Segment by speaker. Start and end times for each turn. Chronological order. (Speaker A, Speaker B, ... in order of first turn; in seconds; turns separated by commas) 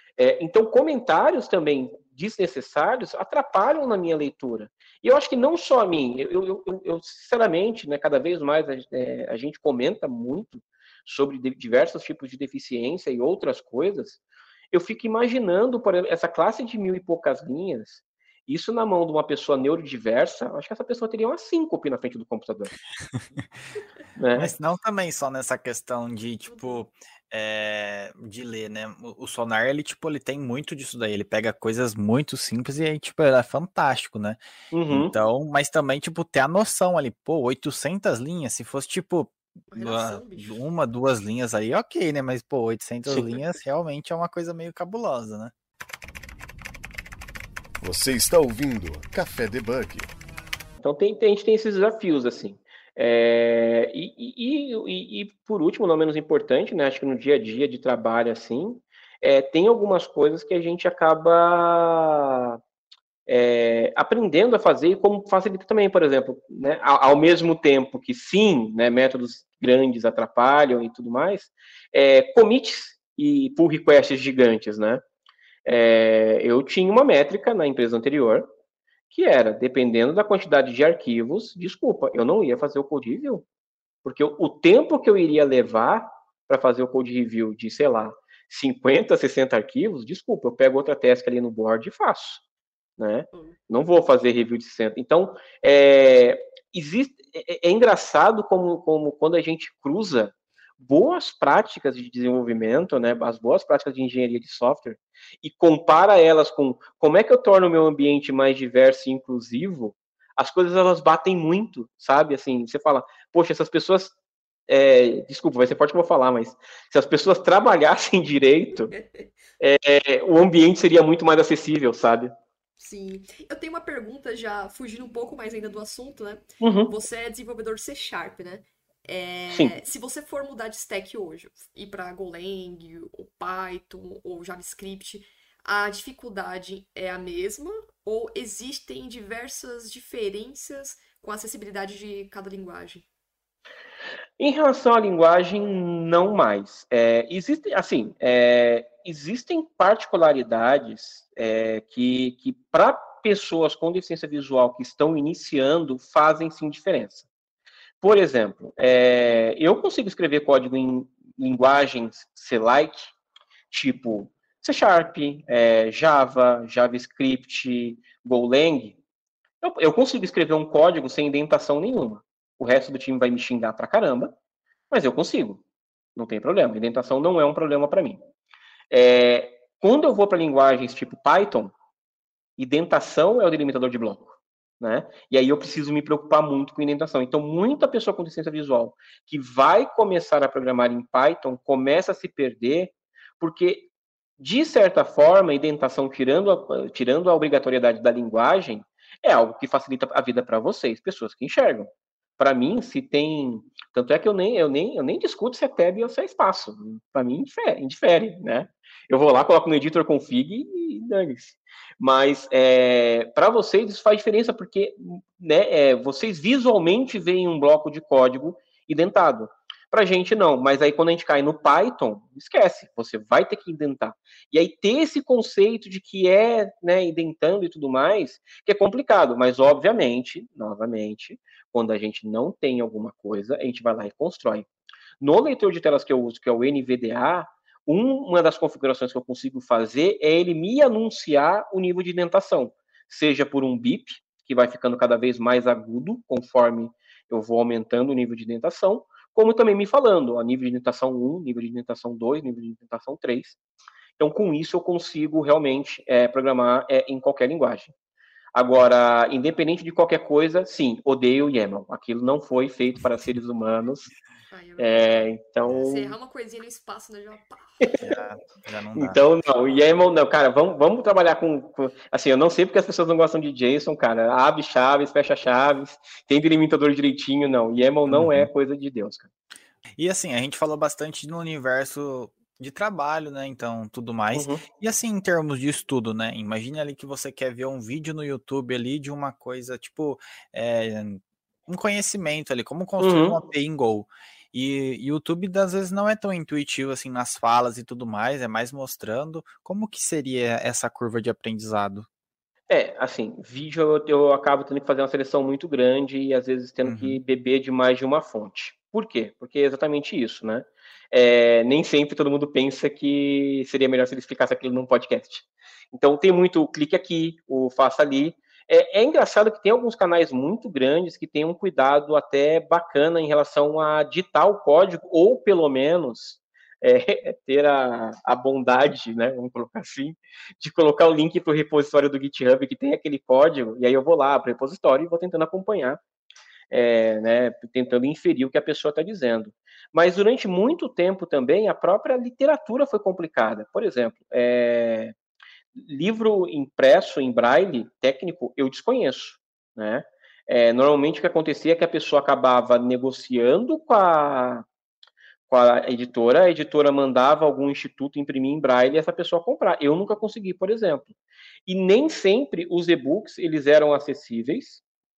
Speaker A: 0.2-14.2, Speaker A: 14.7-22.7, Speaker A: 24.2-24.5, Speaker B: 24.4-34.4, Speaker C: 26.5-26.8, Speaker A: 34.7-35.1, Speaker B: 34.9-45.5, Speaker C: 39.7-40.6, Speaker A: 43.1-43.4, Speaker D: 47.8-50.1, Speaker A: 50.8-62.6, Speaker A: 63.3-75.0, Speaker A: 75.7-78.5, Speaker A: 79.1-83.5, Speaker A: 84.0-92.4, Speaker A: 93.0-114.1, Speaker C: 93.3-93.6, Speaker A: 114.7-118.9, Speaker C: 118.9-119.3, Speaker A: 119.6-122.3, Speaker C: 122.8-143.1, Speaker A: 126.6-126.9, Speaker A: 129.5-129.8, Speaker A: 144.4-157.3, Speaker A: 158.0-163.1, Speaker A: 163.7-169.0, Speaker A: 169.6-174.3, Speaker A: 174.9-175.6, Speaker A: 176.2-178.2, Speaker A: 178.9-181.7, Speaker A: 182.6-234.7, Speaker A: 235.2-253.6, Speaker A: 254.2-257.9, Speaker A: 258.6-264.1, Speaker C: 264.5-267.9, Speaker A: 264.8-266.2, Speaker B: 268.0-269.2, Speaker A: 268.9-279.3, Speaker B: 278.1-278.5, Speaker B: 280.0-302.1, Speaker A: 284.3-284.6, Speaker A: 293.0-293.4, Speaker A: 302.7-336.0, Speaker B: 306.9-307.2, Speaker A: 336.7-345.1, Speaker A: 345.7-354.7, Speaker A: 355.5-361.1, Speaker A: 361.7-364.8